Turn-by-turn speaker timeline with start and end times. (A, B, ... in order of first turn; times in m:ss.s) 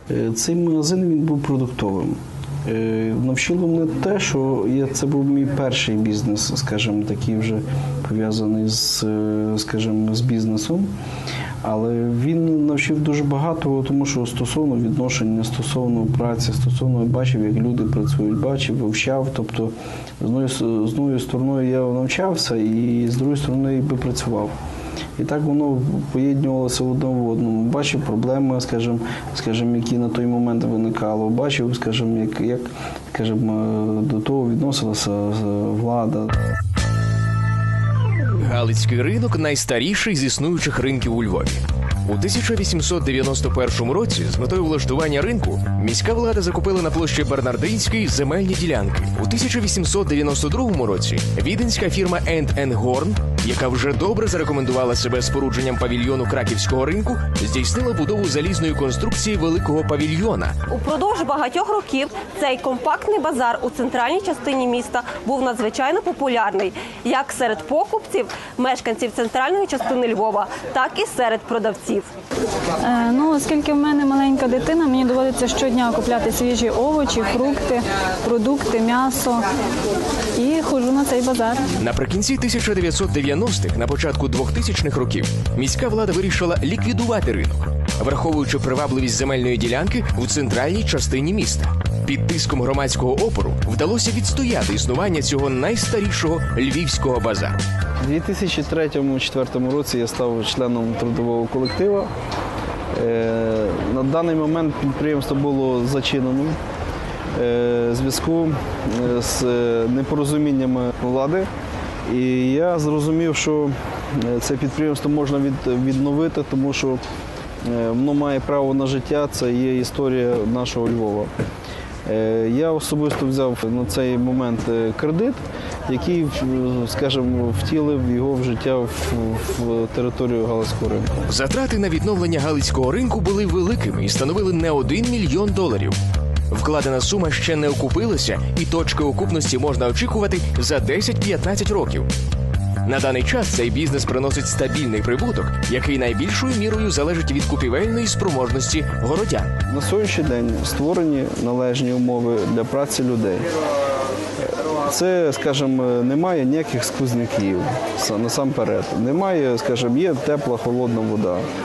0:00.1-0:10.9 A
0:11.6-0:24.5 A
0:25.2-0:36.3 A
0:38.4-1:00.6 B
1:00.7-1:12.1 C
1:12.8-1:19.5 D
1:20.3-1:21.6 D
1:21.8-1:37.6 B
1:38.0-1:42.1 A
1:42.9-1:46.5 A
1:47.3-1:51.5 A
1:52.1-1:57.0 A
1:57.6-2:01.3 A
2:02.0-2:11.1 A
2:11.3-2:16.0 B
2:16.5-2:22.1 B
2:22.8-2:29.5 B
2:29.7-2:33.5 A
2:34.8-2:41.4 A